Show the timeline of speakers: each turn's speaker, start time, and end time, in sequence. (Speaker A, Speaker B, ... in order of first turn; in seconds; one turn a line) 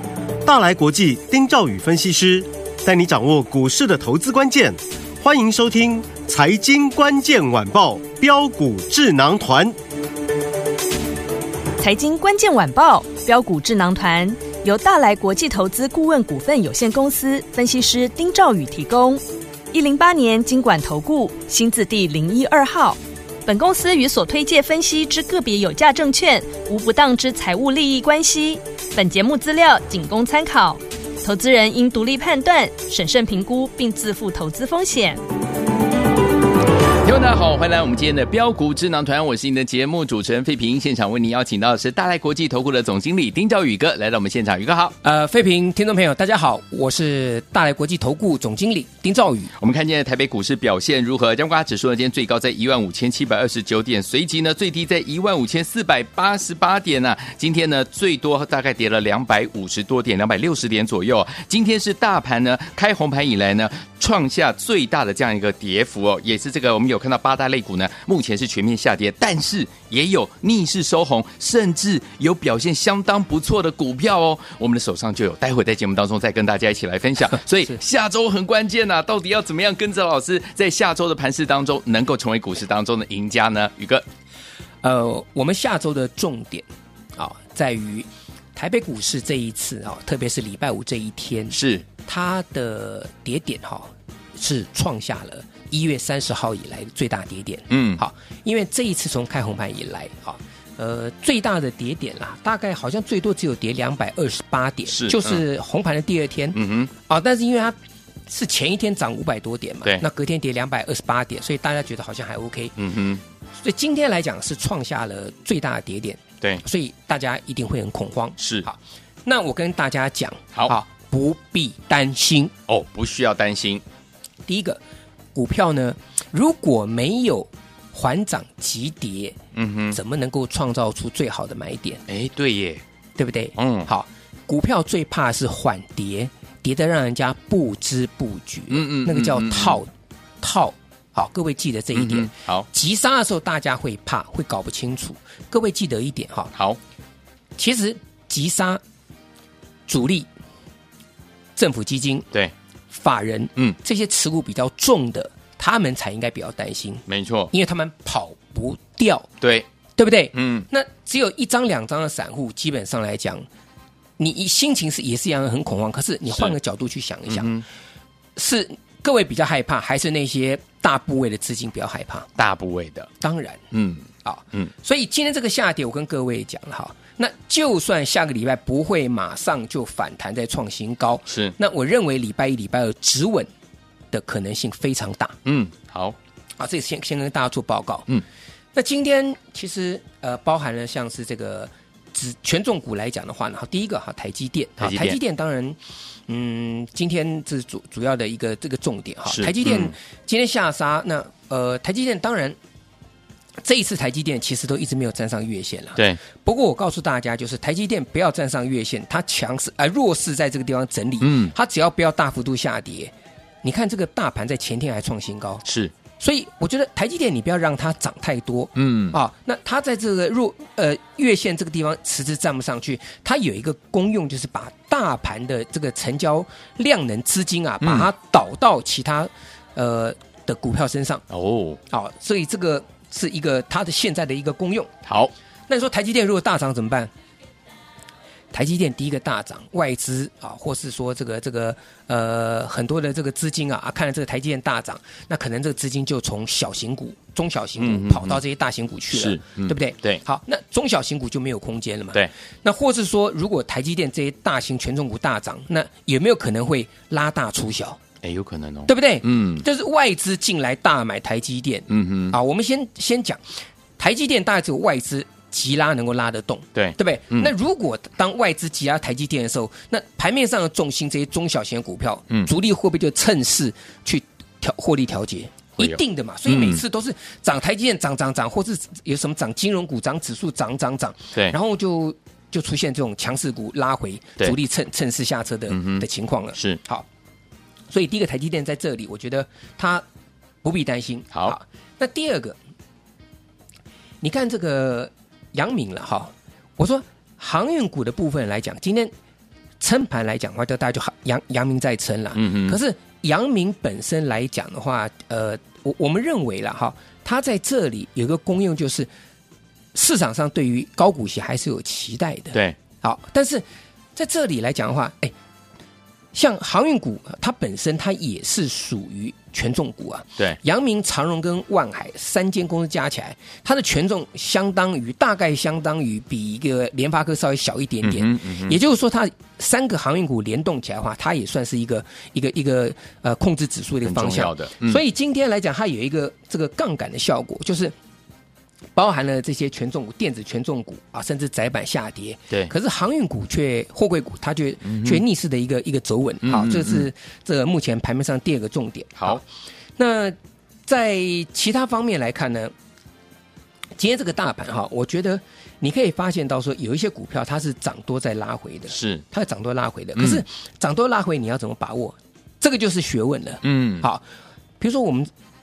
Speaker A: 0.4-9.8
Speaker B: 11.8-35.2
Speaker C: 37.0-44.9
Speaker D: 45.0-49.5
Speaker C: 49.6-84.0
Speaker D: 84.8-91.5
Speaker C: 91.5-91.8
Speaker D: 92.0-107.8
Speaker C: 97.7-98.0
Speaker C: 104.9-105.4
Speaker C: 106.5-106.9
Speaker D: 108.3-112.7
Speaker C: 112.8-113.2
Speaker D: 113.6-122.5
Speaker C: 118.4-118.6
Speaker C: 122.7-123.8
Speaker D: 124.5-124.8
Speaker D: 125.3-129.4
Speaker C: 129.5-130.0
Speaker D: 129.9-132.0
Speaker C: 132.1-132.8
Speaker D: 133.2-139.9
Speaker C: 133.6-133.9
Speaker C: 138.7-139.8
Speaker D: 140.4-146.5
Speaker C: 141.9-142.7
Speaker D: 147.6-148.8
Speaker D: 149.9-150.3
Speaker D: 151.6-152.2
Speaker D: 152.9-159.3
Speaker C: 157.1-157.5
Speaker C: 159.4-159.7
Speaker D: 160.0-163.4
Speaker C: 160.3-160.7
Speaker D: 164.2-167.5
Speaker C: 167.3-167.6
Speaker D: 168.3-172.3
Speaker C: 172.4-173.1
Speaker D: 173.2-173.6
Speaker C: 173.7-174.7
Speaker D: 174.2-183.5
Speaker C: 181.3-181.5
Speaker D: 184.1-185.3
Speaker C: 185.4-186.2
Speaker D: 186.6-188.1
Speaker D: 188.7-202.6
Speaker C: 194.8-195.2
Speaker C: 199.3-199.9
Speaker D: 203.6-213.1
Speaker C: 211.2-211.5
Speaker D: 213.6-215.6
Speaker C: 215.6-215.9
Speaker D: 216.2-231.2
Speaker C: 218.8-219.2
Speaker C: 227.8-228.1
Speaker C: 231.3-231.8
Speaker D: 231.9-234.9
Speaker C: 235.1-235.3
Speaker D: 235.7-237.1
Speaker D: 238.5-258.0
Speaker C: 247.8-248.4
Speaker C: 249.1-250.2
Speaker C: 258.2-259.6
Speaker D: 258.9-263.4
Speaker C: 261.9-262.4
Speaker D: 264.0-287.1
Speaker C: 266.7-267.5
Speaker C: 275.8-276.8
Speaker C: 285.7-286.8
Speaker D: 287.9-290.0
Speaker D: 290.6-292.6
Speaker D: 294.2-299.1
Speaker D: 299.8-309.1
Speaker C: 302.3-302.8
Speaker D: 309.9-313.6
Speaker D: 314.1-315.3
Speaker D: 316.3-337.9
Speaker C: 328.0-328.8
Speaker C: 334.0-335.0
Speaker D: 338.9-349.4
Speaker C: 344.9-345.2
Speaker C: 346.4-347.1
Speaker D: 350.0-350.4
Speaker D: 350.9-352.7
Speaker D: 354.0-364.2
Speaker C: 358.9-359.2
Speaker C: 360.1-360.4
Speaker C: 363.6-364.1
Speaker D: 364.8-365.3